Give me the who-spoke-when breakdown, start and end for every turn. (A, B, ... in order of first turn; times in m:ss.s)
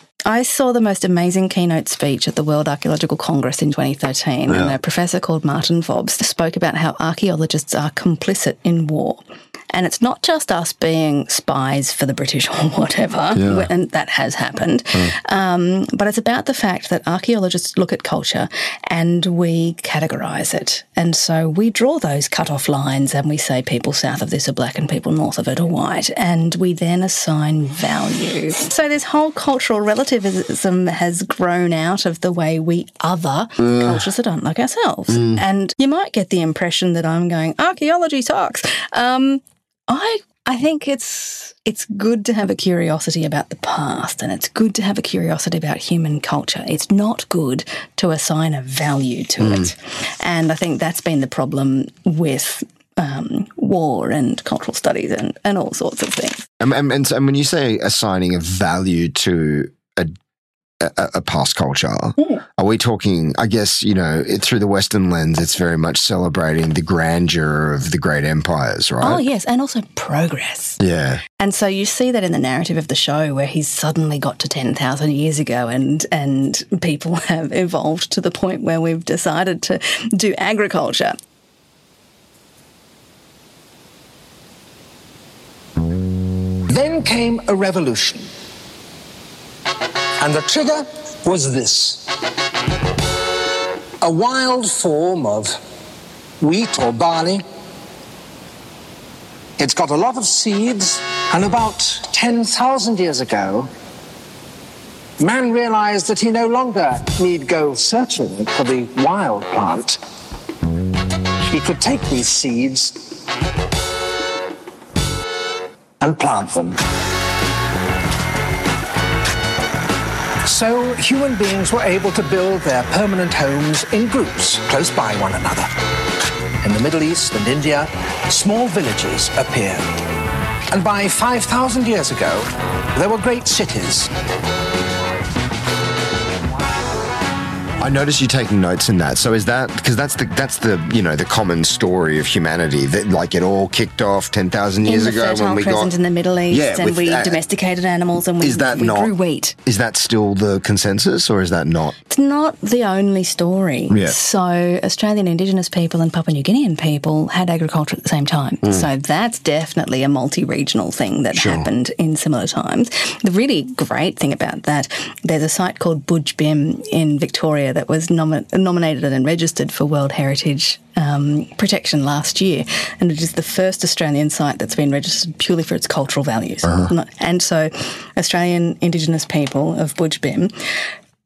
0:00.3-0:56.4 A
0:04.5-0:04.8 B
0:13.4-0:13.7 B
0:33.6-0:34.0 B
0:35.1-0:35.4 B
0:49.4-0:49.7 B
0:56.6-1:00.2 B
1:00.8-1:09.2 B
1:09.0-1:10.8 A
1:10.8-1:11.2 B
1:11.4-1:21.2 A
1:26.7-1:28.3 C
1:30.2-1:32.1 C
1:34.0-1:35.6 C
1:36.4-1:37.4 C
1:39.6-1:43.7 C
1:45.2-1:50.0 C
1:51.5-1:53.0 C
1:56.0-1:56.8 C
2:00.4-2:05.7 C
2:06.6-2:09.9 C
2:10.7-2:14.1 C
2:17.8-2:25.9 B
2:24.8-2:29.6 A
2:26.5-2:27.4 B
2:28.4-2:29.1 B
2:29.6-2:32.0 B
2:32.1-3:00.5 A
2:33.9-2:34.2 B
2:38.6-2:38.9 B
2:41.3-2:41.7 B
2:56.6-2:56.9 B